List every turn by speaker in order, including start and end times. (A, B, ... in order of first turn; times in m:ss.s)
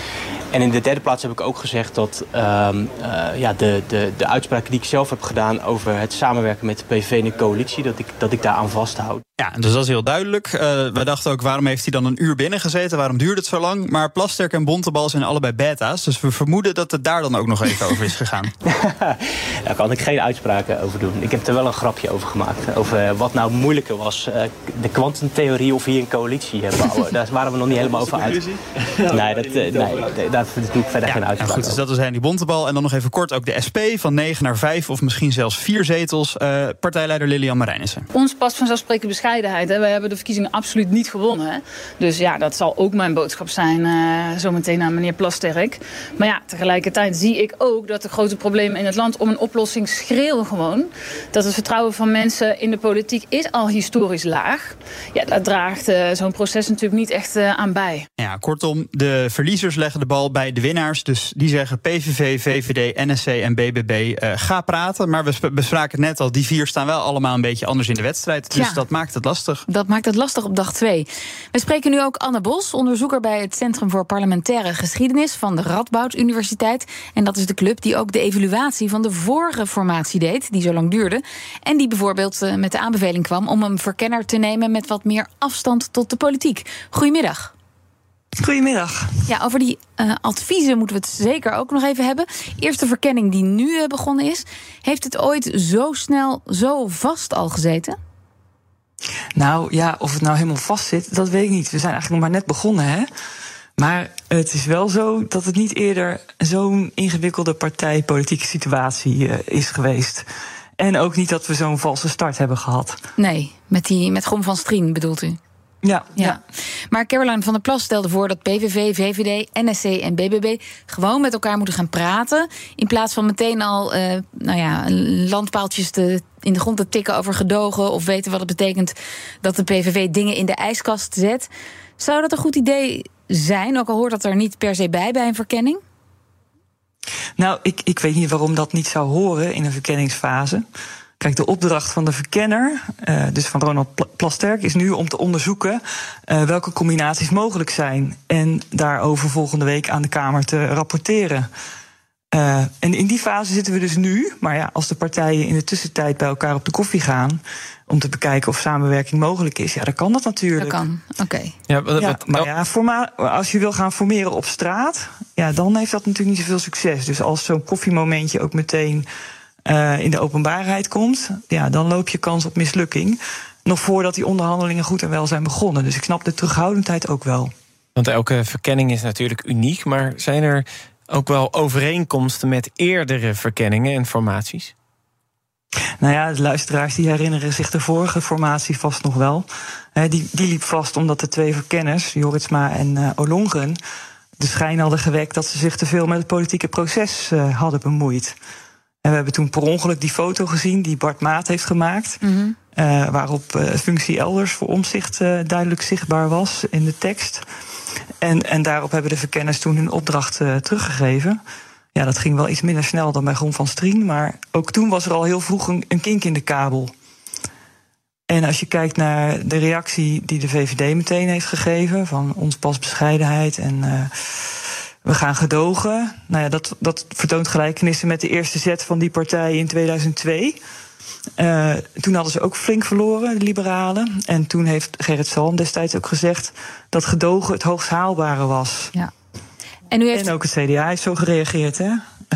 0:00.5-0:09.2 A
0:09.4-0:18.5 B
0:18.7-0:31.8 A
0:31.0-0:38.0 B
0:38.1-0:58.0 C
0:58.2-1:09.6 B
1:08.5-1:08.8 D
1:09.7-1:27.5 D
1:28.4-1:29.1 E
1:29.3-1:38.0 D
1:39.4-1:43.1 E
1:43.8-1:50.2 E
1:50.8-1:53.0 E
1:53.2-1:55.4 D
1:55.8-1:56.4 E
1:56.9-2:15.8 D
2:17.4-2:20.6 E
2:21.2-2:31.5 E
2:32.3-2:40.8 E
2:40.6-2:41.5 D
2:41.7-2:42.4 F
2:42.0-2:49.1 E
2:49.6-2:57.5 E
2:58.0-3:04.7 F
3:06.0-3:13.8 E
3:14.4-3:18.4 E
3:19.0-3:22.2 E
3:22.2-3:22.5 D
3:22.7-3:27.4 E
3:28.2-3:31.4 E
3:31.9-3:36.9 E
3:38.3-3:44.5 E
3:45.0-3:50.6 E
3:51.4-3:58.9 E
3:59.9-4:00.3 D
4:00.1-4:02.0 E